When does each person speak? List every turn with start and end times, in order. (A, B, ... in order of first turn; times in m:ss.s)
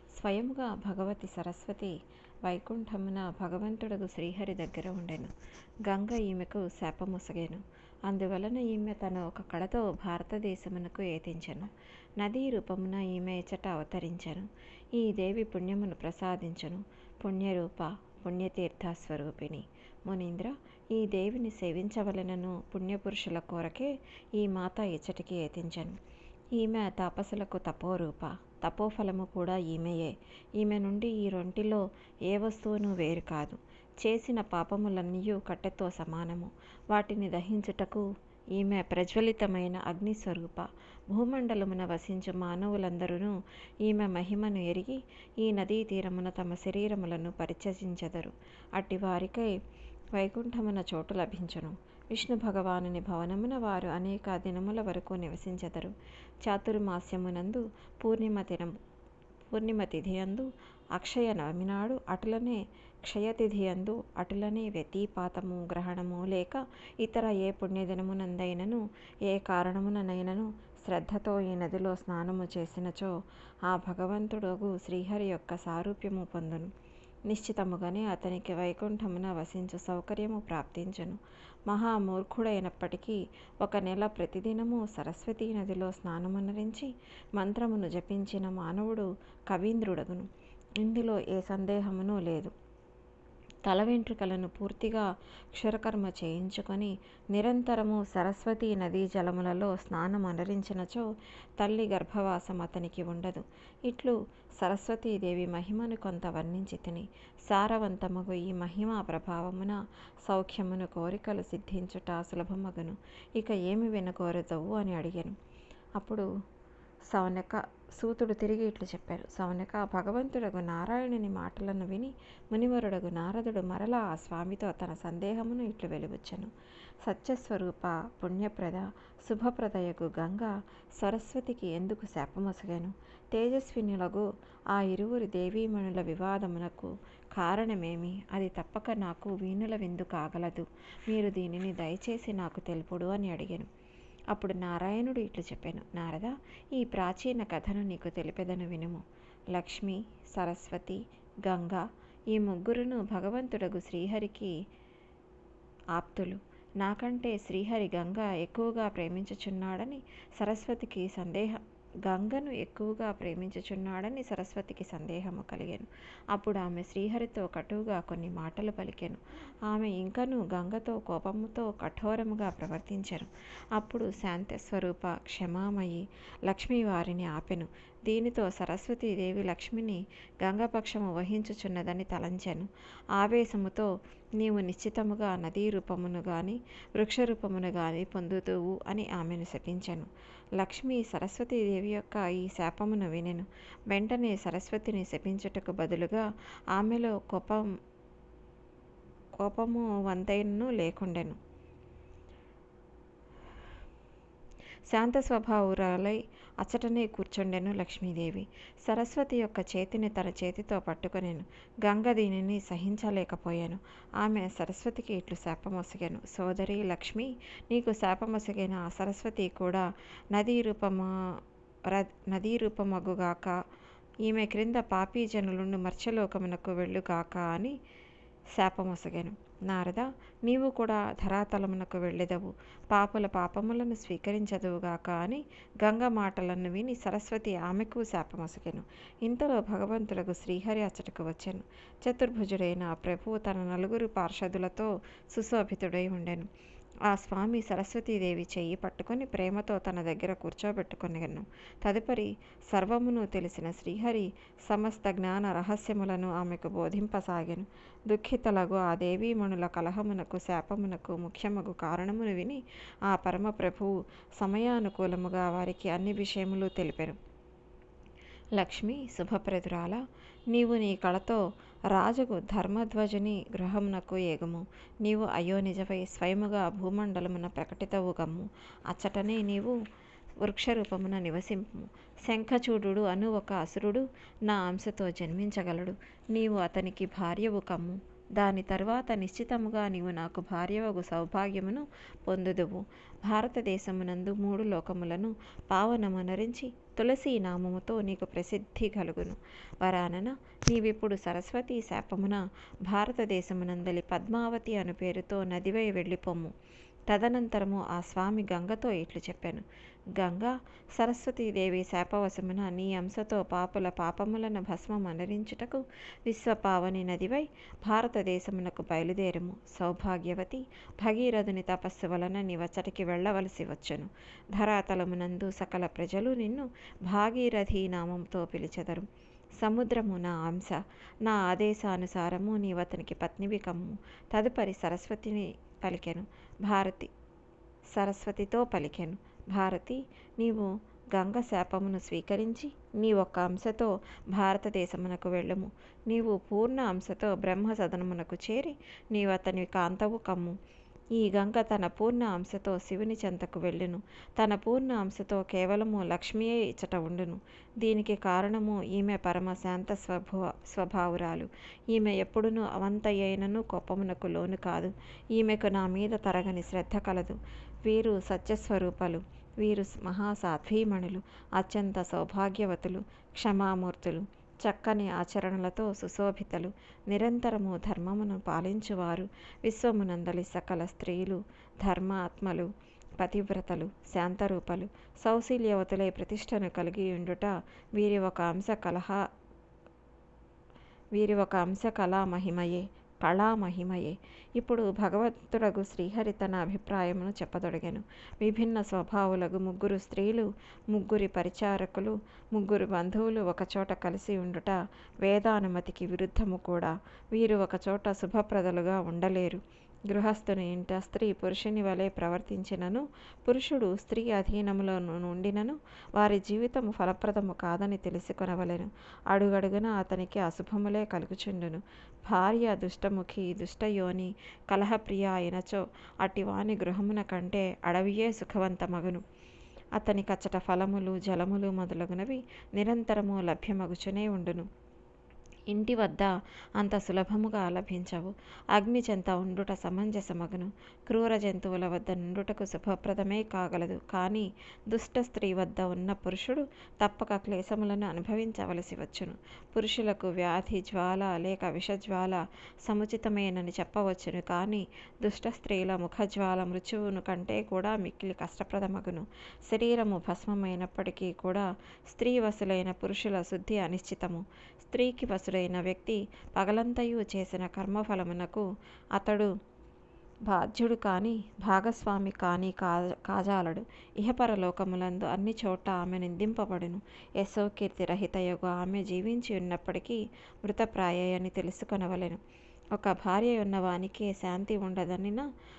0:00.1-0:05.3 A
0:05.8-0:26.0 A
0:26.6-0:49.6 A
0:50.2-0:58.7 A
0:59.5-1:16.7 A
1:17.3-1:30.3 A
1:30.8-1:32.5 A
1:33.6-1:55.4 A
1:56.0-1:56.3 A
1:57.1-2:06.5 A
2:07.0-2:23.7 A
2:24.3-2:34.6 A
2:35.9-3:17.6 A
3:19.4-3:21.4 A
3:24.9-3:41.1 A
3:41.9-3:43.6 A
3:44.2-3:47.8 A
3:48.6-4:06.5 A
4:07.1-4:27.2 A
4:28.6-4:30.0 A
4:30.5-4:31.4 A
4:31.9-4:39.8 A
4:40.4-5:06.5 A
5:07.1-5:09.6 A
5:10.2-5:29.1 A
5:29.6-5:37.1 A
5:37.9-5:50.6 A
5:51.2-6:29.2 A
6:31.1-7:09.2 A
7:10.0-7:14.7 A
7:15.7-7:49.5 A
7:50.4-8:02.4 A
8:02.9-8:05.5 A